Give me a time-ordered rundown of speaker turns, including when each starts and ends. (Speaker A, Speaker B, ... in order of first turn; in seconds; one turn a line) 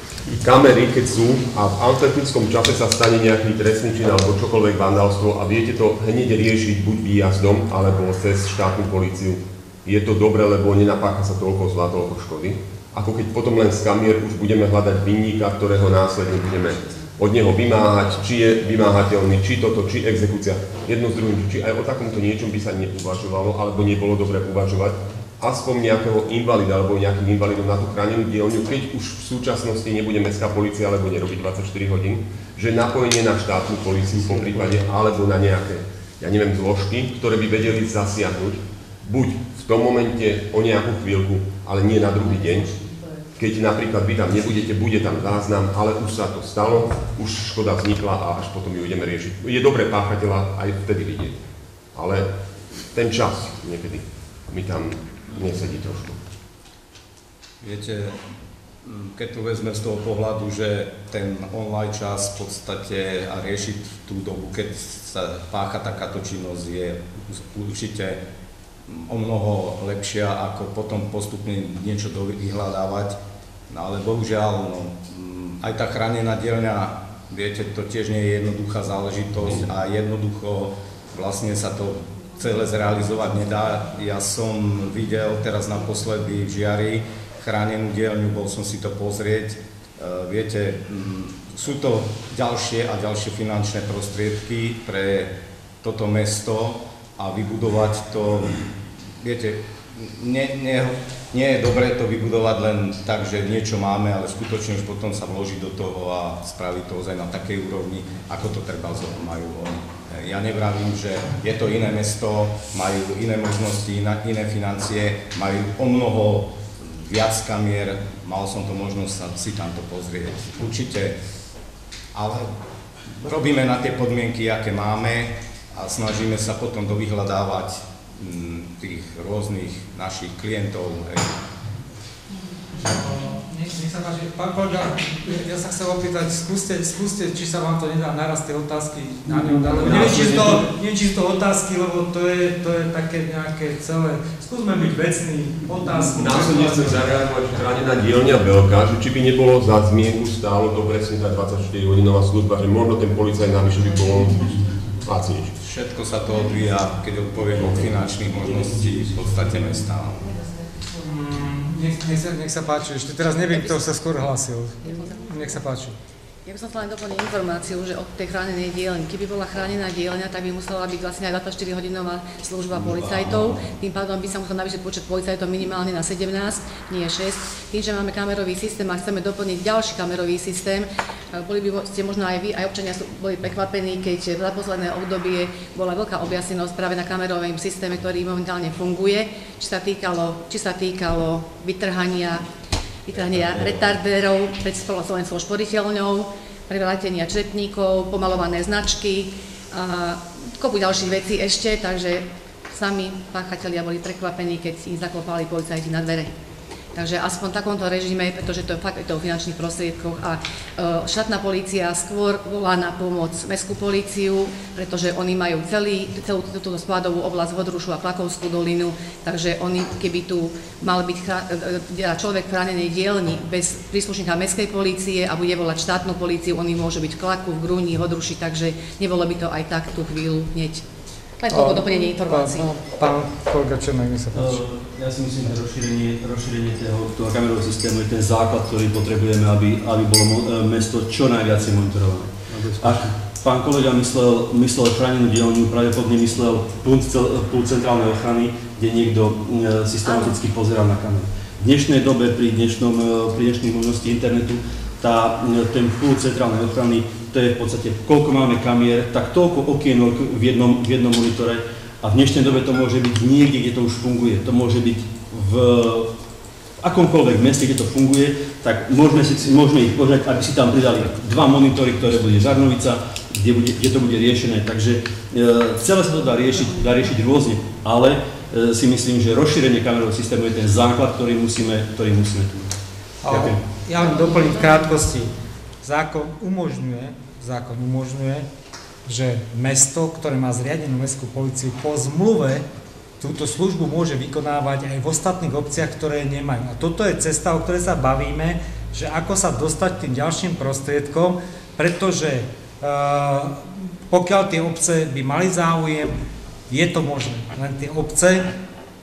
Speaker A: 0.4-42.8
Speaker A: 43.4-51.4
Speaker A: 51.9-52.3
Speaker A: 52.9-56.2
Speaker B: 57.6-58.2
Speaker B: 58.8-68.2
Speaker B: 68.8-73.2
Speaker B: 73.7-98.7
Speaker B: 99.2-121.2
Speaker B: 122.1-122.5
Speaker B: 123.2-131.4
Speaker C: 132.7-147.3
Speaker D: 139.3-140.6
Speaker A: 139.8-140.6
Speaker A: 146.1-155.5
Speaker B: 155.6-160.4
Speaker C: 161.0-165.9
Speaker E: 163.5-163.9
Speaker E: 164.8-165.6
Speaker E: 166.4-192.4
Speaker A: 172.8-173.4
Speaker E: 193.1-206.3
Speaker E: 206.9-230.8
Speaker E: 231.4-232.8
Speaker C: 231.5-234.6
Speaker D: 234.3-266.1
Speaker E: 250.0-250.4
Speaker D: 266.8-282.7
Speaker C: 283.2-285.3
Speaker D: 283.3-283.6
Speaker E: 283.9-284.9
Speaker C: 285.8-288.5
Speaker C: 289.1-292.6
Speaker C: 293.2-306.2
Speaker C: 306.7-308.5